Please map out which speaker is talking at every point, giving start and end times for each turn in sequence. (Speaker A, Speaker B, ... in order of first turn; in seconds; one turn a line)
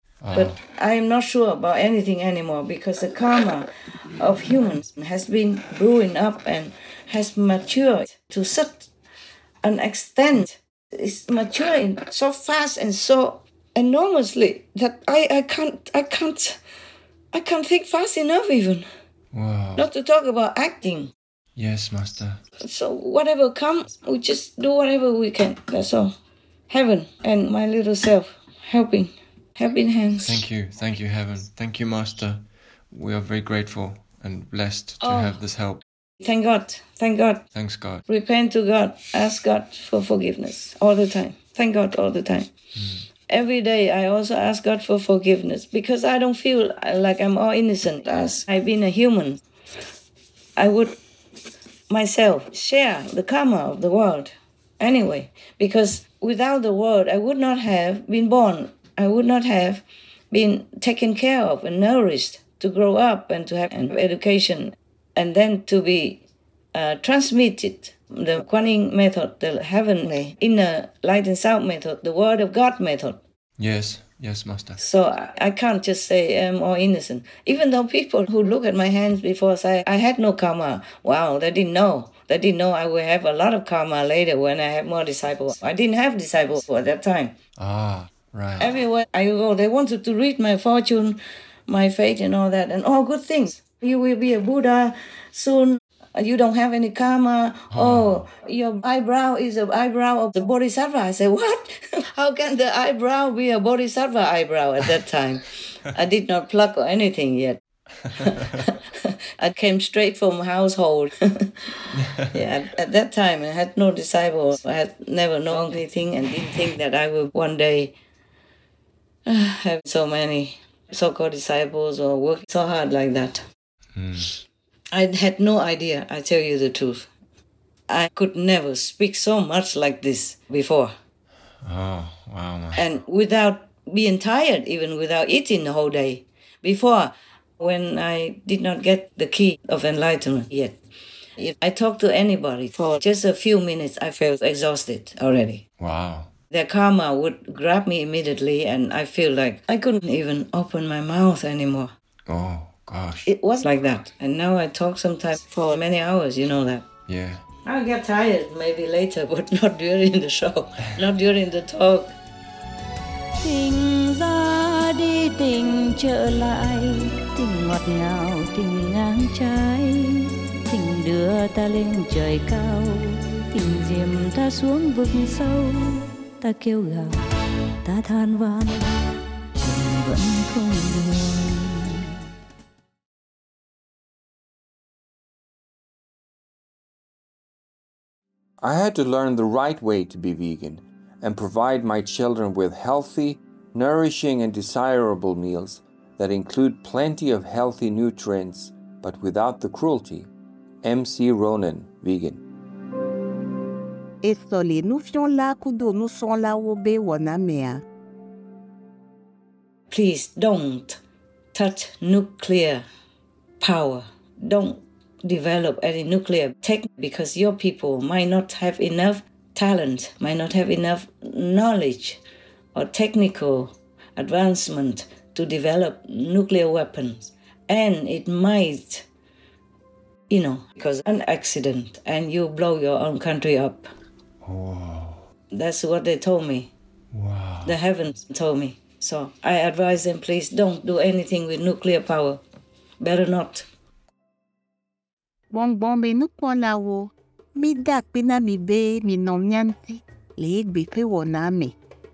Speaker A: 0.2-0.6
Speaker B: 0.3-8.9
Speaker B: 9.6-16.6
Speaker B: 17.3-18.9
Speaker A: 19.3-19.9
Speaker B: 19.8-21.1
Speaker A: 21.6-22.4
Speaker B: 22.6-26.1
Speaker B: 26.7-30.4
Speaker A: 30.2-35.8
Speaker B: 35.0-35.4
Speaker B: 36.2-37.4
Speaker A: 37.5-38.0
Speaker B: 38.1-42.5
Speaker A: 42.8-43.0
Speaker B: 43.3-49.4
Speaker B: 50.5-51.0
Speaker B: 51.9-66.2
Speaker B: 66.7-73.2
Speaker A: 73.6-74.8
Speaker B: 74.8-87.3
Speaker A: 87.6-88.8
Speaker B: 88.6-107.6
Speaker A: 97.7-98.2
Speaker B: 108.1-111.7
Speaker A: 112.0-112.3
Speaker B: 112.3-117.9
Speaker B: 119.2-123.5
Speaker A: 123.9-124.3
Speaker B: 124.9-127.1
Speaker B: 127.9-130.9
Speaker A: 131.6-132.9
Speaker B: 132.7-140.8
Speaker B: 141.4-145.6
Speaker A: 145.8-146.3
Speaker B: 146.5-151.9
Speaker A: 152.3-153.3
Speaker B: 153.2-156.8
Speaker A: 157.1-157.4
Speaker B: 157.6-162.1
Speaker C: 163.4-177.1
Speaker C: 177.8-178.8
Speaker C: 179.6-182.0
Speaker D: 188.6-200.3
Speaker D: 200.8-202.4
Speaker E: 204.2-207.8
Speaker B: 209.9-211.0
Speaker B: 211.5-212.8
Speaker B: 213.6-222.2
Speaker B: 222.7-229.1
Speaker B: 230.3-233.9
Speaker A: 234.4-235.3
Speaker B: 235.5-236.7
Speaker A: 237.1-237.8
Speaker B: 237.6-242.4
Speaker B: 243.0-243.7
Speaker E: 245.5-251.7